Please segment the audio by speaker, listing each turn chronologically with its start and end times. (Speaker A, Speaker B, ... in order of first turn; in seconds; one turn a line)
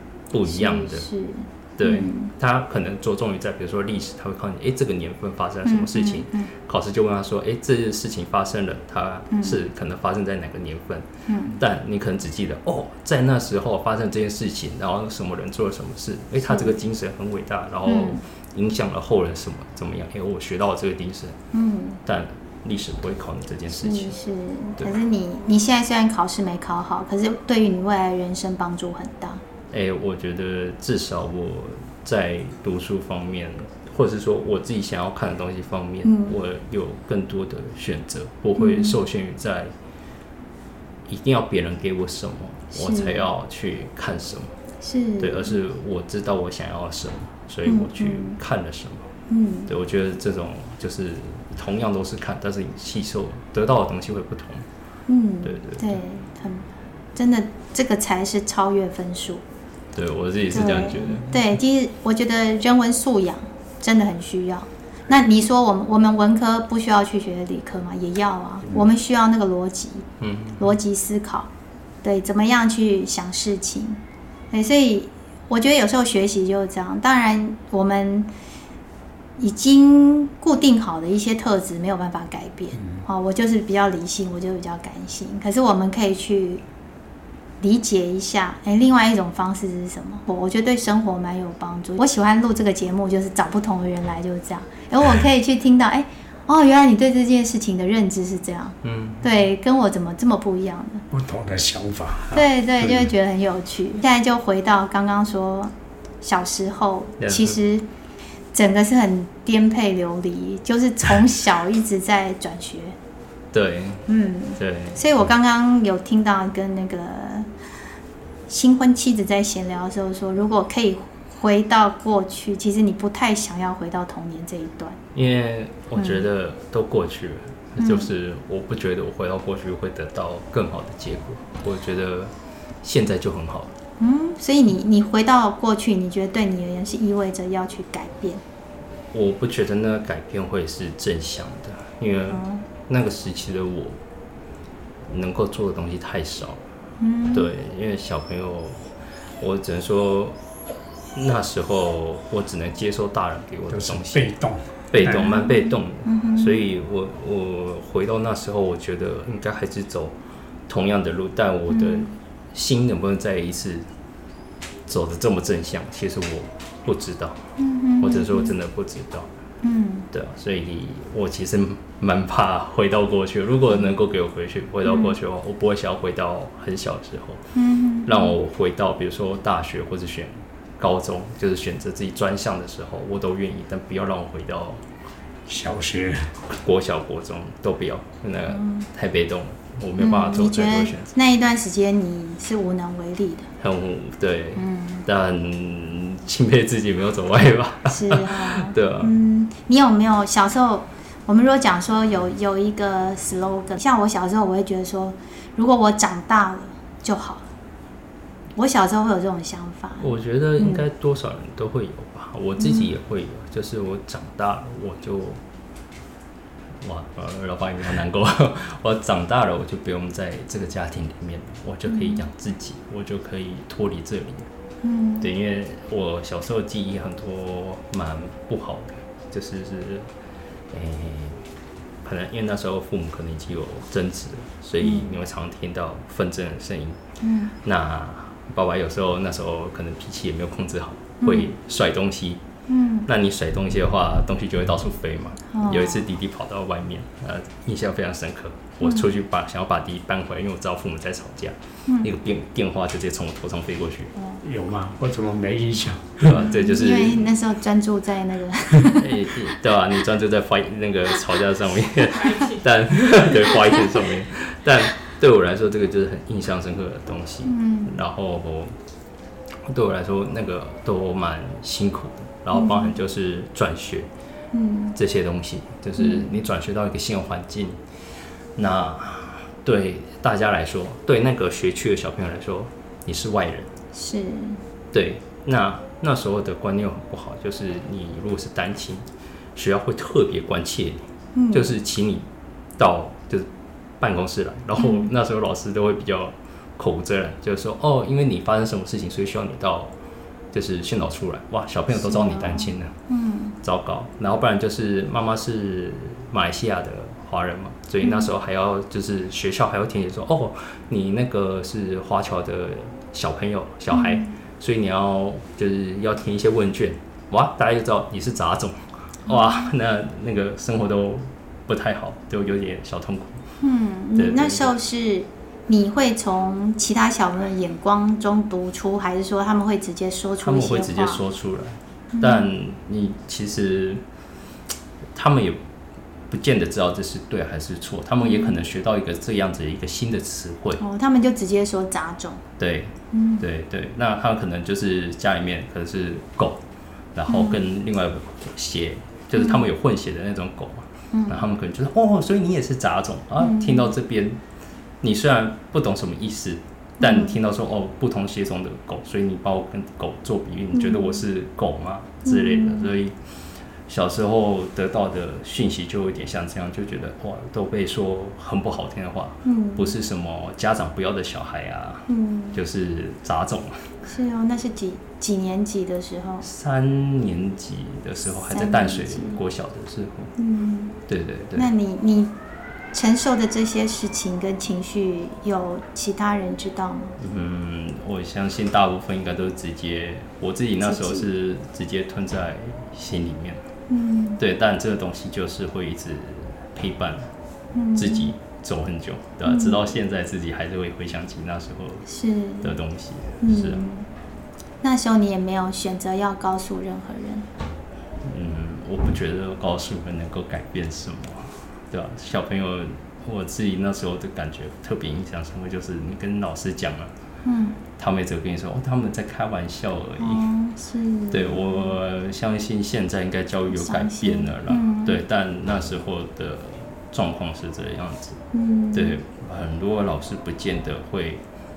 Speaker A: 0.3-1.1
Speaker B: 0.5-2.3
Speaker A: 1.8-11.1
Speaker B: 5.7-6.5
Speaker B: 9.3-9.6
Speaker B: 11.3-11.6
Speaker A: 11.6-21.4
Speaker B: 16.4-16.8
Speaker B: 17.9-18.2
Speaker B: 21.5-22.0
Speaker A: 22.1-24.2
Speaker B: 23.7-29.4
Speaker A: 29.7-39.7
Speaker B: 36.0-36.3
Speaker B: 38.6-39.0
Speaker A: 41.1-44.5
Speaker B: 42.7-43.2
Speaker B: 44.8-45.5
Speaker A: 45.2-49.1
Speaker B: 47.7-48.4
Speaker B: 49.3-49.7
Speaker A: 49.7-54.7
Speaker B: 55.1-59.4
Speaker A: 55.4-56.0
Speaker A: 59.9-61.5
Speaker B: 60.5-70.0
Speaker A: 70.2-70.6
Speaker B: 70.6-71.5
Speaker B: 72.0-74.0
Speaker B: 74.5-78.3
Speaker B: 79.4-86.6
Speaker B: 87.6-101.0
Speaker A: 98.8-99.2
Speaker C: 101.1-102.4
Speaker B: 102.3-107.9
Speaker A: 107.2-107.6
Speaker B: 108.5-113.0
Speaker A: 113.5-114.1
Speaker B: 114.1-117.5
Speaker A: 114.6-115.0
Speaker B: 118.5-125.0
Speaker A: 125.1-133.7
Speaker B: 126.0-126.2
Speaker B: 127.8-128.1
Speaker B: 134.0-138.4
Speaker A: 139.1-144.0
Speaker B: 142.3-142.7
Speaker A: 145.1-146.6
Speaker B: 147.0-147.5
Speaker A: 147.3-148.8
Speaker A: 149.4-150.4
Speaker A: 151.1-154.3
Speaker C: 153.7-155.3
Speaker A: 154.9-160.1
Speaker B: 155.0-156.6
Speaker A: 160.7-163.9
Speaker B: 161.7-162.1
Speaker A: 164.9-167.5
Speaker B: 167.6-168.5
Speaker A: 168.0-169.3
Speaker B: 169.6-170.1
Speaker A: 170.1-177.4
Speaker B: 174.9-175.2
Speaker B: 177.6-178.3
Speaker A: 178.1-184.8
Speaker C: 185.5-186.3
Speaker A: 186.5-191.1
Speaker B: 188.5-188.9
Speaker B: 190.0-193.5
Speaker A: 193.6-199.1
Speaker B: 194.6-195.0
Speaker B: 197.9-207.4
Speaker B: 208.6-210.8
Speaker A: 210.0-215.4
Speaker B: 212.6-212.9
Speaker A: 216.8-224.5
Speaker B: 221.9-222.2
Speaker B: 224.8-225.3
Speaker A: 225.2-230.1
Speaker A: 230.7-231.4
Speaker A: 232.0-237.0
Speaker B: 234.8-235.1
Speaker B: 237.2-237.5
Speaker A: 237.6-242.4
Speaker B: 241.2-241.5
Speaker B: 242.7-243.1
Speaker A: 243.1-254.1
Speaker B: 245.5-246.1
Speaker B: 248.8-249.1
Speaker C: 254.4-256.4
Speaker A: 256.2-257.4
Speaker B: 256.3-259.5
Speaker A: 258.9-268.7
Speaker B: 267.4-267.9
Speaker A: 269.7-274.1
Speaker B: 272.5-272.9
Speaker B: 274.5-275.0
Speaker A: 274.9-277.8
Speaker B: 276.0-276.3
Speaker A: 278.6-283.7
Speaker B: 283.9-284.6
Speaker A: 284.9-289.0
Speaker A: 289.6-291.0
Speaker B: 291.4-291.7
Speaker A: 291.5-292.3
Speaker A: 292.8-293.5
Speaker A: 294.0-299.9
Speaker B: 294.8-295.1
Speaker A: 300.5-302.9
Speaker B: 301.9-303.6
Speaker A: 303.6-323.4
Speaker B: 308.0-308.3
Speaker B: 313.9-314.3
Speaker B: 319.3-319.7
Speaker B: 323.6-331.2
Speaker A: 324.2-324.8
Speaker A: 330.4-334.0
Speaker B: 332.1-332.5
Speaker A: 335.1-335.6
Speaker A: 336.3-340.8
Speaker B: 338.2-338.6
Speaker B: 340.8-342.4
Speaker A: 342.6-346.6
Speaker B: 343.1-343.4
Speaker A: 347.1-354.4
Speaker B: 347.3-347.6
Speaker B: 349.4-349.6
Speaker B: 351.1-351.4
Speaker B: 353.4-353.9
Speaker A: 355.0-363.1
Speaker B: 357.0-357.4
Speaker B: 360.7-361.2
Speaker B: 362.2-362.9
Speaker A: 363.9-373.9
Speaker B: 369.4-369.9
Speaker B: 372.1-372.6
Speaker B: 374.1-376.4
Speaker A: 376.4-380.3
Speaker B: 378.5-379.4
Speaker B: 380.4-380.9
Speaker A: 381.1-381.7
Speaker B: 381.6-382.3
Speaker B: 382.9-387.2
Speaker A: 387.2-393.6
Speaker B: 390.8-391.3
Speaker B: 393.9-394.4
Speaker A: 394.4-397.3
Speaker B: 397.8-398.3
Speaker A: 397.9-402.1
Speaker B: 399.4-399.8
Speaker B: 402.1-402.7
Speaker A: 402.6-403.8
Speaker B: 403.4-404.1
Speaker B: 404.8-407.5
Speaker A: 408.2-417.1
Speaker B: 417.4-417.8
Speaker A: 418.0-420.5
Speaker B: 420.2-421.9
Speaker A: 421.3-428.4
Speaker B: 423.7-425.2
Speaker B: 428.5-429.2
Speaker A: 428.9-431.4